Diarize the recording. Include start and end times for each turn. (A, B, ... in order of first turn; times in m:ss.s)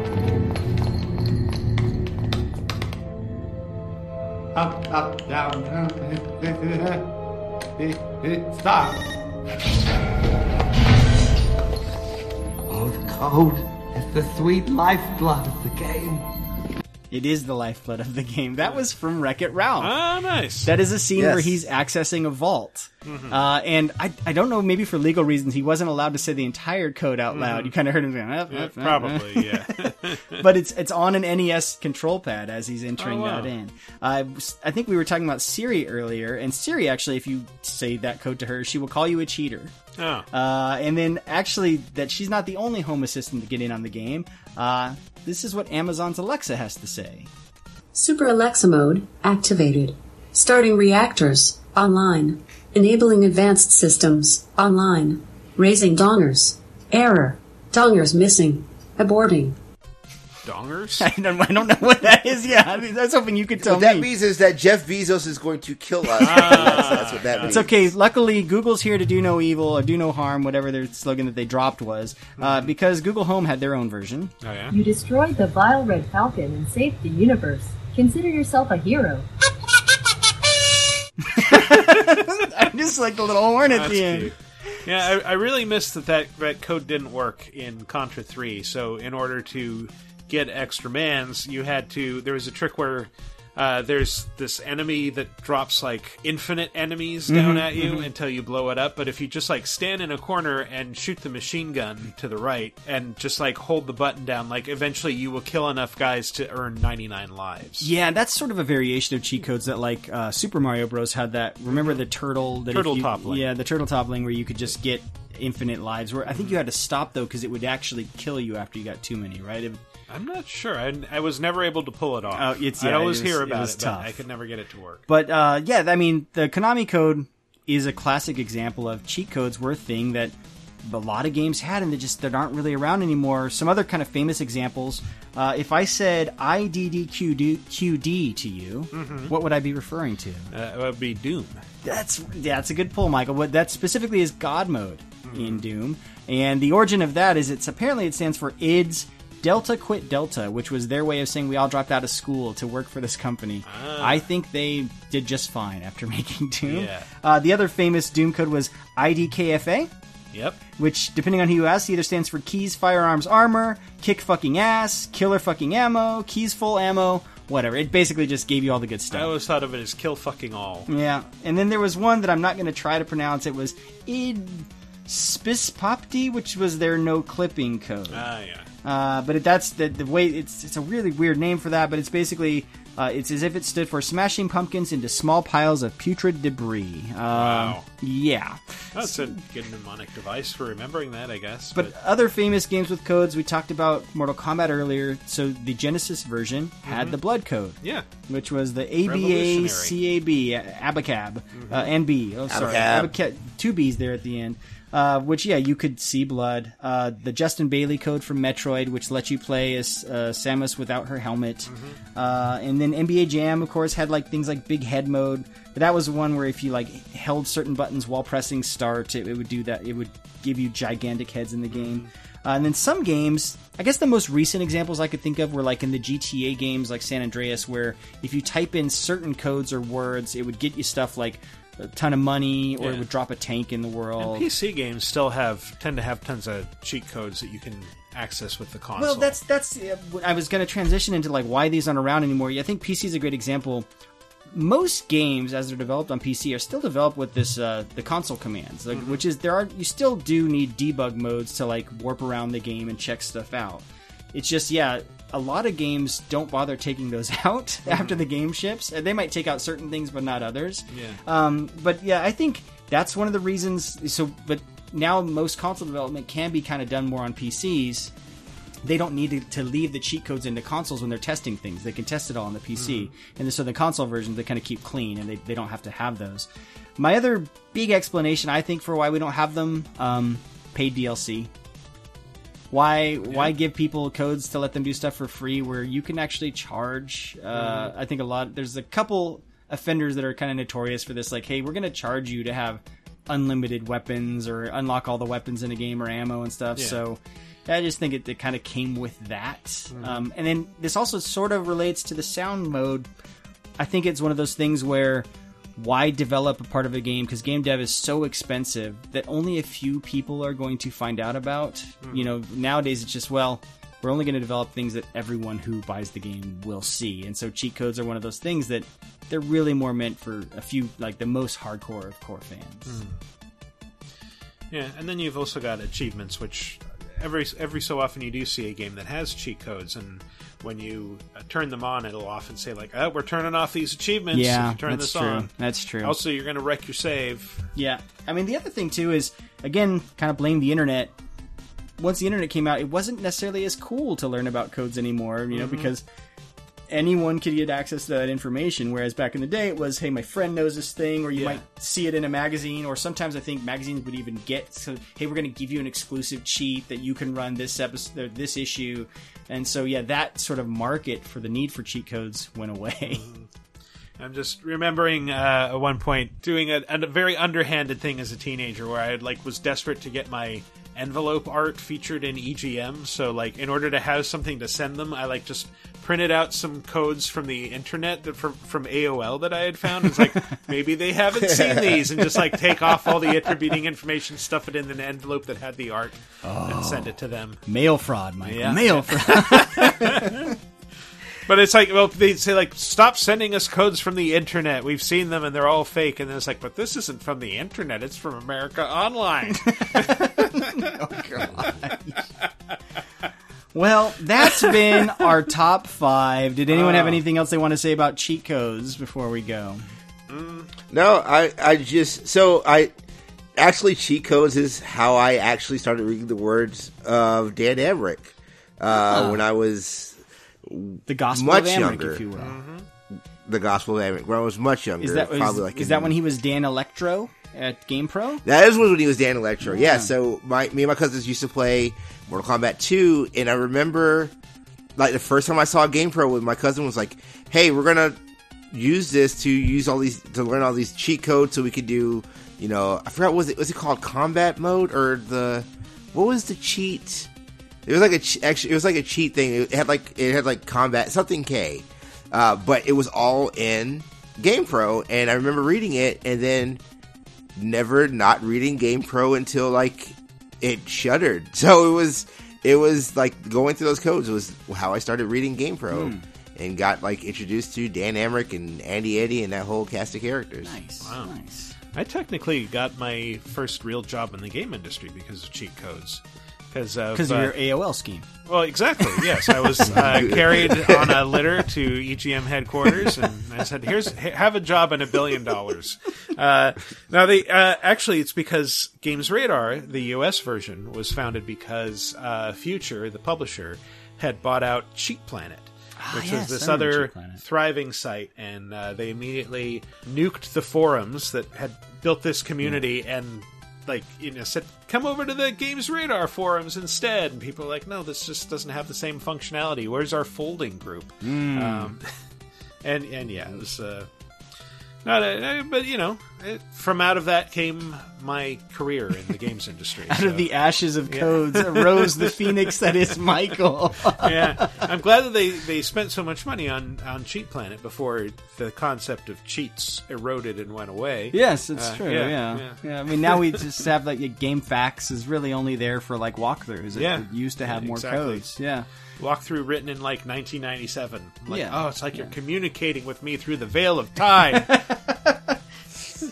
0:04.5-0:07.1 A
0:07.8-0:09.1 A
0:12.7-0:16.3 A
0:17.1-0:19.9 B
0:19.8-0:20.7 C
0:20.6-0:39.7 B
0:21.1-0:21.6 D
0:23.0-0:23.4 C
0:27.3-0:27.7 C
0:28.5-0:30.4 C
0:33.0-0:33.5 C
0:40.0-0:40.3 C
0:40.3-0:47.3 B
0:47.9-0:59.6 E
1:00.4-1:01.1 C
1:01.0-1:04.1 B
1:03.6-1:07.7 D
1:06.2-1:07.7 C
1:06.4-1:06.9 B
1:07.4-1:14.3 B
1:12.4-1:12.7 C
1:14.4-1:14.8 C
1:14.7-1:19.2 F
1:21.2-1:24.8 B
1:23.7-1:47.9 C
1:37.3-1:38.1 B
1:47.8-1:59.8 B
1:51.7-1:52.0 C
1:52.7-1:53.4 C
1:56.3-1:56.6 C
2:00.1-2:05.0 C
2:02.3-2:04.2 B
2:05.1-2:20.5 B
2:18.9-2:19.3 C
2:20.5-2:21.6 C
2:21.8-2:39.9 B
2:25.2-2:25.6 C
2:33.6-2:34.2 C
2:36.6-2:37.1 C
2:40.3-2:40.6 C
2:40.8-2:49.3 B
2:49.1-2:50.9 C
2:50.9-2:58.3 B
2:58.1-2:58.7 C
2:58.8-3:09.4 B
3:07.3-3:07.8 C
3:08.9-3:11.9 C
3:11.7-3:54.4 B
3:16.8-3:17.2 C
3:17.8-3:18.1 C
3:19.0-3:19.9 C
3:21.5-3:21.9 C
3:22.5-3:23.1 D
3:31.7-3:32.0 C
3:41.7-3:42.1 C
3:52.8-3:53.0 C
3:54.2-3:59.4 C
3:59.0-4:03.9 B
4:04.5-4:28.1 B
4:08.9-4:09.2 C
4:17.9-4:18.2 C
4:20.9-4:21.2 C
4:28.8-4:41.5 B
4:32.8-4:33.1 C
4:42.7-5:03.1 B
4:47.5-4:47.9 C
4:56.8-4:57.0 C
4:59.9-5:00.2 C
5:03.8-5:23.0 B
5:12.0-5:12.3 C
5:22.9-5:23.2 C
5:24.7-5:35.5 C
5:34.3-5:36.2 B
5:36.0-5:37.6 C
5:37.8-5:41.1 B
5:42.0-5:46.0 B
5:45.5-5:45.9 C
5:46.9-6:03.2 B
5:51.3-5:51.6 C
6:03.1-6:03.5 C
6:04.2-6:27.6 C
6:21.4-6:22.0 D
6:26.4-6:27.1 B
6:27.7-6:30.5 B
6:28.4-6:30.5 C
6:31.4-6:41.9 C
6:39.7-6:42.2 B
6:43.7-6:49.8 B
6:44.5-6:45.2 C
6:46.7-6:47.2 C
6:50.3-6:50.7 C
6:50.9-6:52.9 D
6:53.6-7:02.2 D
6:59.1-6:59.4 B
7:01.1-7:02.6 B
7:02.4-7:02.8 C
7:03.1-7:06.1 D
7:05.0-7:08.4 B
7:08.4-7:14.3 D
7:09.7-7:10.1 B
7:15.0-7:18.2 D
7:18.7-7:27.3 D
7:27.8-7:36.8 D
7:37.6-7:50.7 D
7:45.9-7:46.2 B
7:50.6-7:51.7 B
7:51.9-7:57.5 C
7:57.1-7:58.3 B
7:58.5-8:32.0 C
7:59.9-8:01.6 D
8:16.0-8:17.4 B
8:31.2-8:32.0 B
8:32.8-8:34.1 C
8:35.0-8:40.5 C
8:40.1-8:44.8 B
8:41.1-8:42.6 C
8:44.2-8:53.6 C
8:51.3-8:58.8 B
8:56.9-8:58.5 C
8:59.2-9:04.7 C
9:01.5-9:02.3 B
9:04.5-9:05.6 B